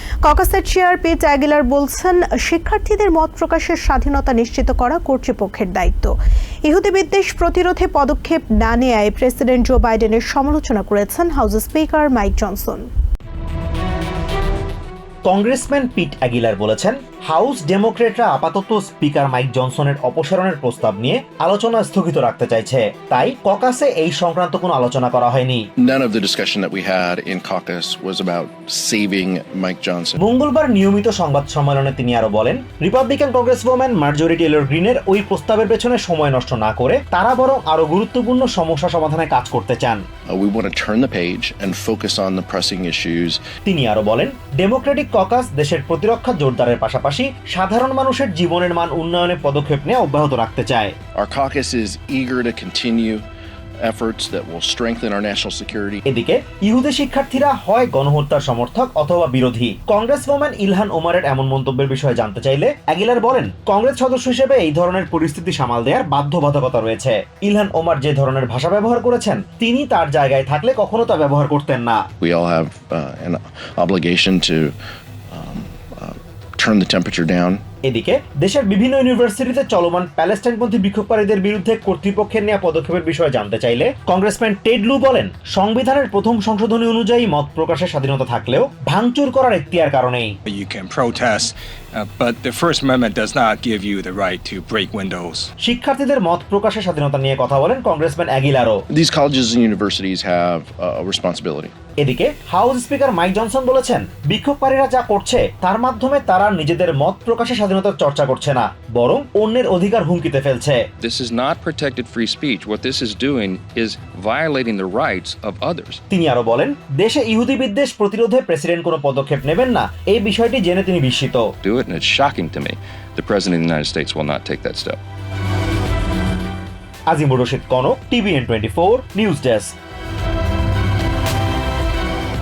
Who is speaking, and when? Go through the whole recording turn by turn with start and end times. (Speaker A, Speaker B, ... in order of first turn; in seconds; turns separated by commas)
Speaker A: 0.2-6.1, Speaker A: 6.7-12.9, Speaker B: 15.3-25.6, Speaker C: 25.8-30.2, Speaker B: 30.2-40.0, Speaker C: 40.3-43.4, Speaker B: 43.6-50.9, Speaker C: 51.2-53.3, Speaker C: 53.8-56.0, Speaker B: 56.1-72.0, Speaker C: 72.2-74.7, Speaker C: 75.3-77.6, Speaker B: 77.8-90.3, Speaker D: 90.5-95.5, Speaker B: 95.6-98.8, Speaker C: 98.9-101.7, Speaker B: 102.0-110.8, Speaker E: 111.0-116.0, Speaker B: 116.1-121.5, Speaker E: 121.6-125.0, Speaker B: 127.1-129.7